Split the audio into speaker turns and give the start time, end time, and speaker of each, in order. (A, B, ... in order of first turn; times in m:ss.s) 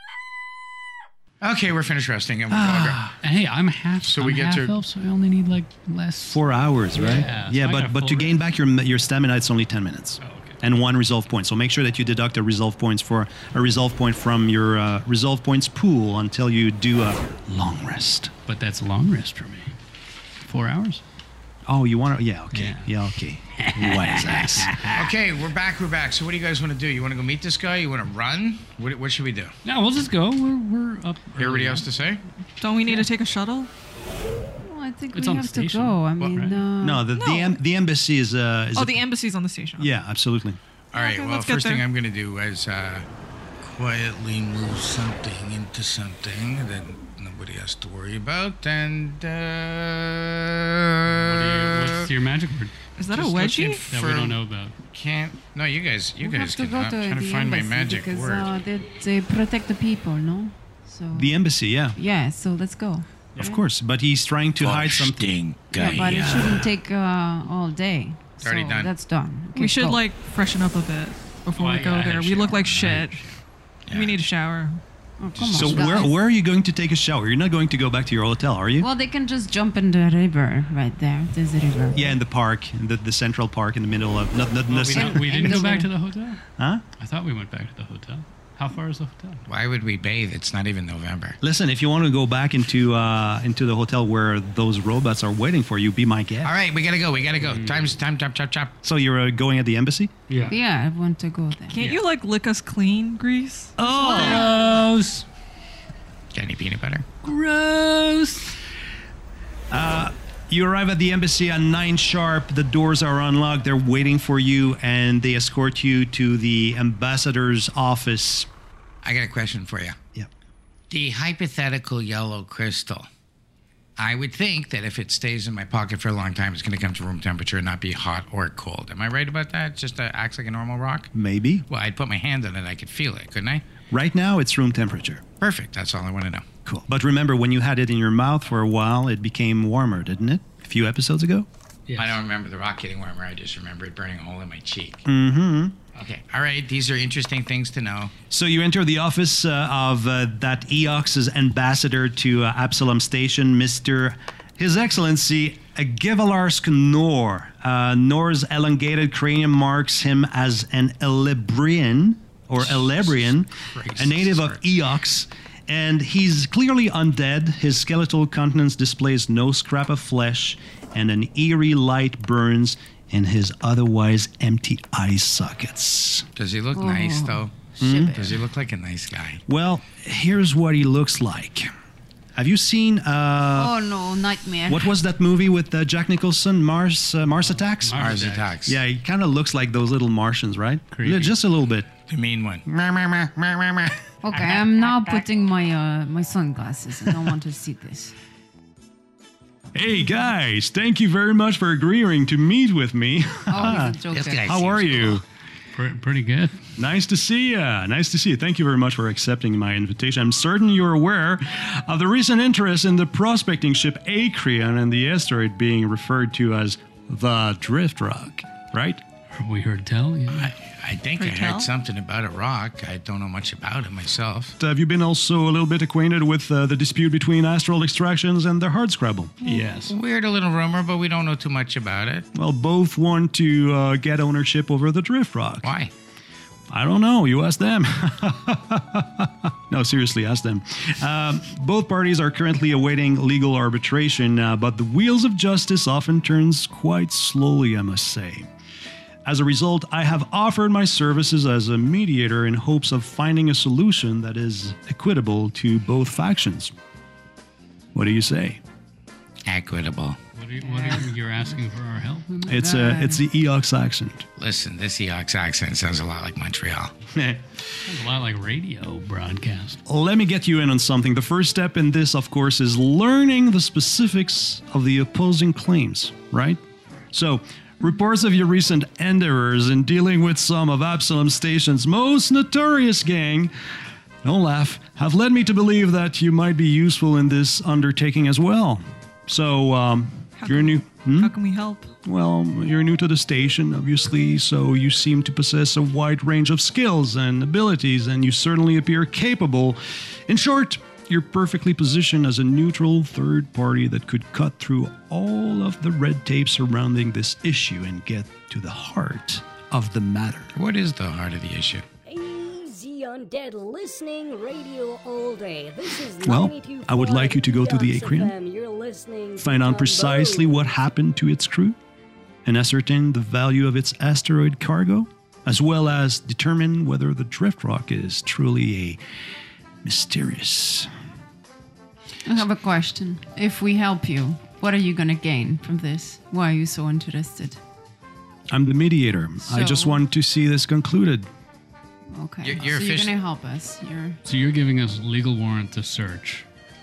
0:01.4-0:03.0 A
0:02.5-0:03.1 B
0:03.2-0:06.4 C
0:04.0-0:04.7 A
0:06.3-0:18.3 B
0:06.9-0:08.4 C
0:10.2-0:10.6 C
0:18.4-0:19.7 C
0:20.4-0:21.0 C
0:21.7-0:24.8 B
0:22.5-0:22.9 C
0:23.6-0:25.1 C
0:24.9-0:29.5 A
0:29.6-0:31.9 C
0:31.4-0:32.2 A
0:32.6-0:33.7 D
0:34.6-0:37.0 E
0:35.1-0:36.6 C
0:36.8-0:39.0 B
0:37.1-0:37.6 D
0:38.7-0:39.9 D
0:39.8-0:40.6 B
0:40.9-0:43.0 A
0:40.9-0:41.8 D
0:43.6-0:52.1 A
0:51.1-0:54.7 C
0:53.0-0:53.8 D
0:53.1-0:54.4 A
0:54.9-0:58.5 A
0:56.2-1:01.4 E
1:01.1-1:02.0 B
1:01.9-1:03.6 E
1:03.4-1:05.2 B
1:04.6-1:06.6 A
1:05.7-1:10.0 E
1:08.4-1:08.9 A
1:09.6-1:13.2 D
1:11.5-1:13.4 C
1:13.9-1:14.2 A
1:13.9-1:14.8 D
1:15.2-1:16.1 E
1:15.4-1:15.7 A
1:15.5-1:18.9 B
1:18.8-1:22.2 E
1:21.9-1:25.6 B
1:24.7-1:26.4 C
1:24.9-1:25.9 E
1:26.6-1:26.8 B
1:27.0-1:29.4 C
1:29.5-1:31.4 A
1:31.4-1:36.5 B
1:36.4-1:38.7 A
1:37.4-1:37.9 C
1:38.8-1:40.1 B
1:40.3-1:40.6 C
1:40.5-1:41.8 E
1:41.7-1:44.5 D
1:43.8-1:44.6 B
1:44.0-1:45.2 C
1:46.3-1:47.1 A
1:47.2-1:48.6 C
1:49.7-1:58.5 B
1:59.0-2:00.0 A
2:00.9-2:03.1 A
2:04.0-2:11.1 A
2:11.1-2:11.6 B
2:11.7-2:13.6 A
2:13.9-2:15.2 B
2:15.4-2:16.4 A
2:16.6-2:21.5 B
2:21.9-2:22.2 C
2:22.0-2:25.0 A
2:25.0-2:25.8 B
2:25.9-2:28.1 A
2:28.3-2:56.2 B
2:42.6-2:44.6 A
2:56.4-2:59.4 A
2:56.7-2:58.3 E
2:57.8-2:58.2 B
2:59.5-3:01.7 B
3:02.4-3:03.7 B
3:03.5-3:05.0 E
3:04.7-3:11.9 B
3:07.8-3:08.6 C
3:08.0-3:08.8 A
3:10.9-3:11.3 C
3:12.1-3:12.7 A
3:12.7-3:13.9 B
3:14.2-3:18.1 E
3:19.7-3:25.2 B
3:23.5-3:24.5 E
3:24.1-3:25.2 A
3:25.7-3:26.6 C
3:26.8-3:39.0 B
3:39.3-3:40.5 C
3:40.3-3:44.6 A
3:41.2-3:41.7 D
3:44.6-3:49.4 B
3:49.4-3:49.9 C
3:49.9-3:52.2 A
3:52.3-3:55.7 B
3:55.6-3:55.9 A
3:56.7-4:08.5 B
4:09.2-4:16.7 B
4:17.9-4:18.6 B
4:19.4-4:20.2 A
4:20.4-4:22.4 C
4:20.6-4:21.0 E
4:22.3-4:23.2 E
4:22.5-4:24.2 B
4:24.4-4:26.9 A
4:27.1-4:27.4 B
4:27.9-4:29.8 C
4:29.9-4:36.6 B
4:37.1-4:43.5 B
4:44.2-4:51.3 B
4:50.4-4:51.9 D
4:52.0-5:10.5 B
5:10.5-5:11.8 A
5:12.0-5:20.6 F
5:16.2-5:18.3 B
5:19.4-5:21.8 B
5:22.4-5:29.0 B
5:29.8-5:30.9 B
5:32.2-5:37.6 E
5:38.5-5:41.3 B
5:39.4-5:40.0 E
5:42.1-5:44.2 E
5:42.4-5:43.1 A
5:44.2-5:46.4 C